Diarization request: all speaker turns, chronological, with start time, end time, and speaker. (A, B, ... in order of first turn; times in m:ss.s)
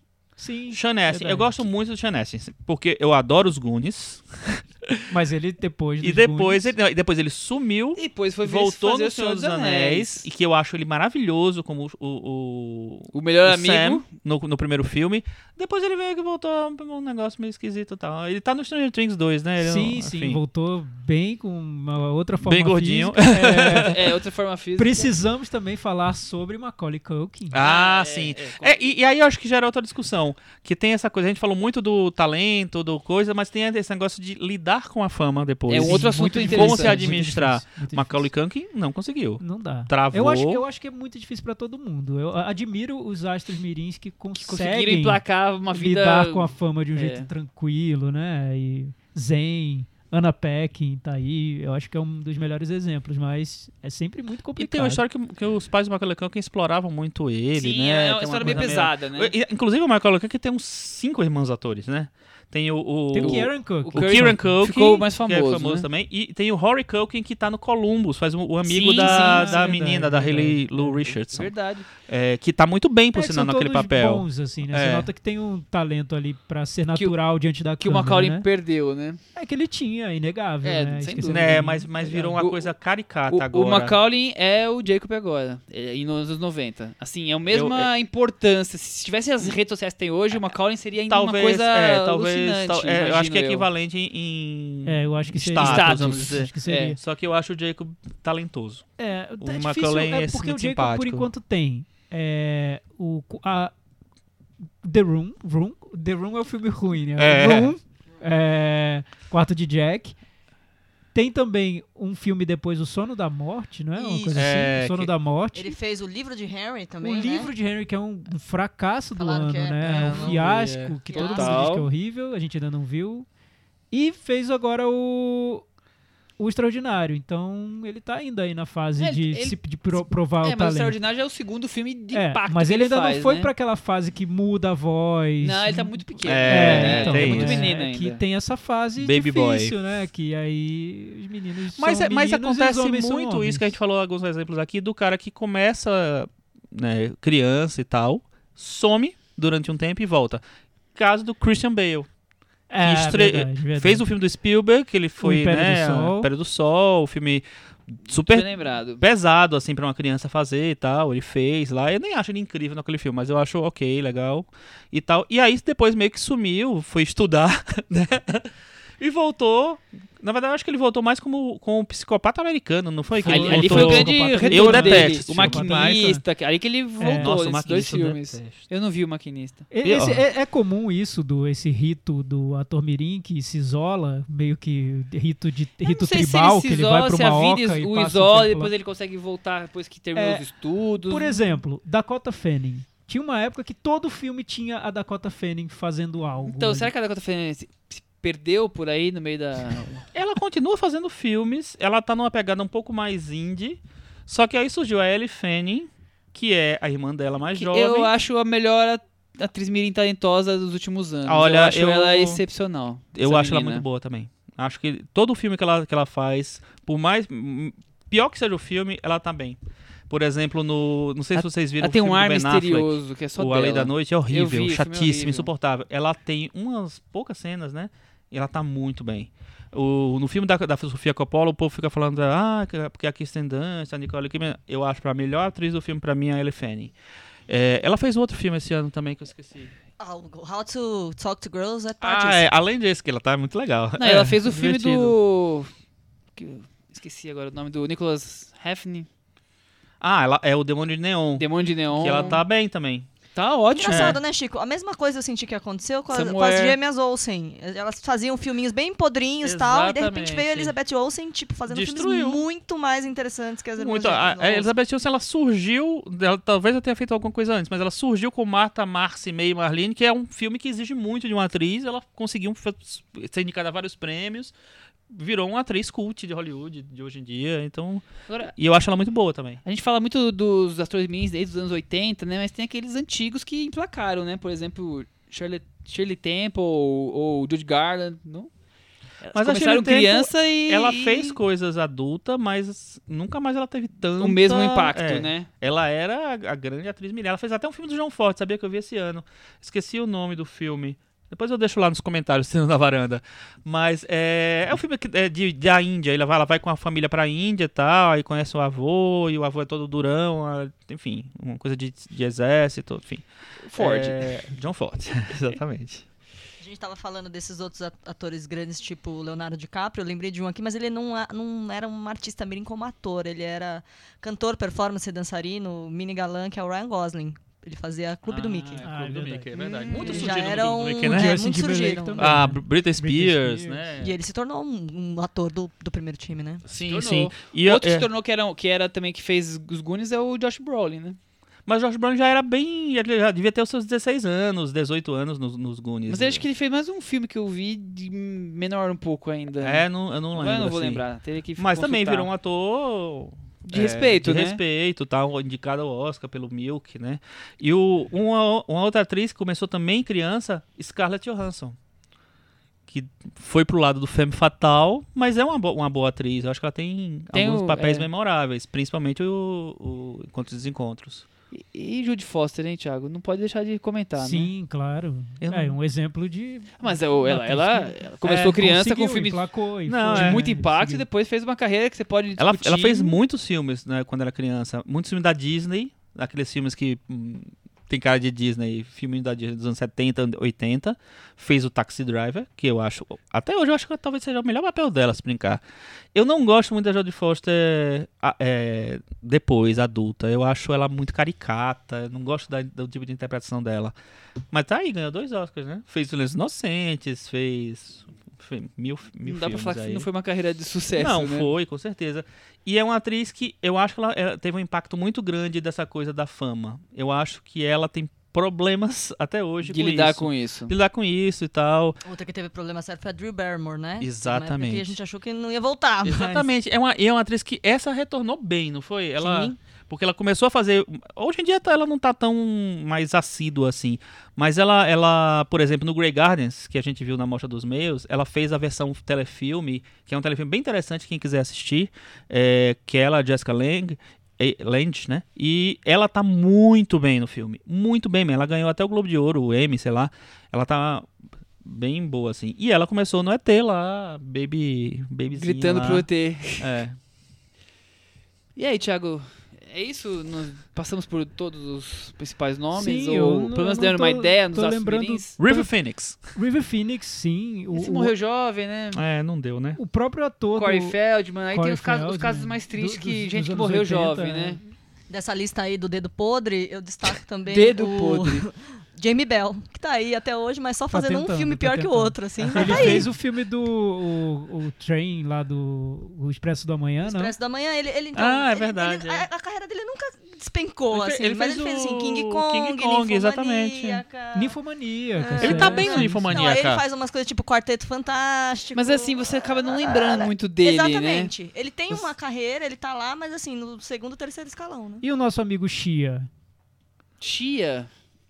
0:00.4-0:01.6 A
0:00.7-0:05.0 B
0:05.1-0:06.7 A
0:06.0-0:20.4 B
0:08.0-0:10.3 C
0:13.1-0:14.0 C
0:19.6-0:24.0 A
0:22.4-0:24.0 B
0:23.6-0:25.1 C
0:24.8-0:27.6 A
0:27.5-0:40.6 B
0:27.6-0:28.8 C
0:35.7-0:37.1 C
0:35.7-0:38.3 A
0:39.4-0:55.0 A
0:44.4-0:47.3 C
0:54.6-1:15.1 B
0:57.5-0:59.3 C
0:58.4-0:58.7 A
1:03.1-1:04.5 A
1:03.2-1:05.9 C
1:08.6-1:09.8 C
1:09.0-1:11.1 A
1:11.2-1:11.9 C
1:13.1-1:18.4 A
1:17.8-1:19.2 C
1:19.3-1:22.1 A
1:20.6-1:22.7 C
1:21.2-1:24.0 B
1:23.3-1:33.6 C
1:27.5-1:27.9 B
1:31.1-1:38.8 B
1:34.8-1:37.0 A
1:35.6-1:37.0 C
1:39.0-1:43.7 A
1:39.4-1:41.3 B
1:44.8-1:50.2 A
1:47.2-1:47.7 B
1:51.1-1:55.8 A
1:53.9-1:54.5 D
1:54.3-1:55.1 B
1:55.5-1:57.5 D
1:57.0-2:03.2 A
1:59.2-2:00.4 D
1:59.8-2:01.0 B
2:01.1-2:01.6 D
2:01.1-2:01.9 C
2:03.9-2:05.6 A
2:06.4-2:11.0 A
2:09.0-2:13.5 C
2:12.1-2:23.8 A
2:15.4-2:18.2 C
2:16.2-2:17.7 B
2:19.0-2:19.7 B
2:21.7-2:30.4 B
2:30.9-2:32.1 B
2:32.7-2:34.1 A
2:32.8-2:56.1 B
2:35.2-2:36.3 A
2:38.1-2:39.0 C
2:53.2-2:56.2 A
2:53.2-2:59.6 C
2:57.0-2:57.3 A
2:57.2-2:58.7 B
2:59.7-3:08.7 A
2:59.8-3:00.2 B
3:05.8-3:11.6 C
3:10.1-3:10.4 A
3:11.1-3:16.9 A
3:16.4-3:20.0 C
3:20.1-3:28.1 B
3:27.5-3:33.8 C
3:31.2-3:32.4 B
3:33.1-3:39.6 B
3:40.1-3:56.9 B
3:41.4-3:45.5 C
3:57.5-3:59.7 B
4:00.0-4:02.5 D
4:02.0-4:05.2 B
4:04.0-4:05.7 C
4:06.4-4:09.1 C
4:10.0-4:13.1 B
4:11.4-4:12.4 C
4:13.3-4:14.2 C
4:13.7-4:24.7 D
4:13.9-4:14.2 B
4:16.1-4:16.8 C
4:19.4-4:20.7 B
4:21.7-4:22.4 B
4:23.8-4:34.5 B
4:35.1-4:39.6 B
4:38.3-4:38.5 C
4:39.6-4:48.5 C
4:49.2-4:51.4 C
4:49.3-5:13.2 B
4:54.2-4:55.5 C
5:13.7-5:14.4 C
5:13.8-5:16.0 B
5:16.6-5:28.9 D
5:28.3-5:31.4 B
5:28.4-5:28.8 C
5:28.8-5:29.5 A
5:29.5-5:30.4 C
5:29.9-5:32.4 D
5:31.0-5:33.9 A
5:32.2-5:34.1 B
5:34.0-5:36.6 D
5:36.7-5:38.1 B
5:36.8-5:41.2 C
5:41.7-5:46.4 B
5:46.1-5:52.3 C
5:49.6-5:51.0 B
5:51.6-6:01.8 B
5:53.7-5:54.6 C
6:02.9-6:11.3 B
6:07.3-6:08.1 C
6:11.5-6:14.5 C
6:14.2-6:21.0 A
6:15.4-6:15.8 B
6:16.8-6:19.4 C
6:19.9-6:20.6 B
6:20.1-6:23.2 C
6:22.4-6:35.6 B
6:36.1-6:43.9 B
6:44.5-6:50.1 B
6:49.2-6:51.5 C
6:50.9-7:02.0 B
6:59.6-7:00.7 C
7:02.0-7:06.5 D
7:04.0-7:04.9 B
7:06.0-7:31.1 B
7:09.2-7:09.5 D
7:31.6-7:37.0 B
7:35.3-7:36.8 C
7:38.6-7:45.3 C
7:42.7-7:45.7 A
7:45.4-7:46.2 B
7:46.3-7:48.1 A
7:47.7-7:49.0 C
7:48.9-7:49.8 B
7:49.8-7:51.0 A
7:50.6-7:54.6 C
7:51.5-7:54.6 A
7:55.1-8:03.1 D
7:57.4-7:58.4 C
8:00.9-8:07.3 A
8:02.6-8:03.0 B
8:07.0-8:14.5 D
8:08.1-8:09.3 B
8:10.9-8:14.0 B
8:14.3-8:16.4 A
8:15.2-8:25.0 D
8:15.4-8:16.8 B
8:18.7-8:21.3 C
8:25.0-8:26.3 A
8:27.2-8:27.9 C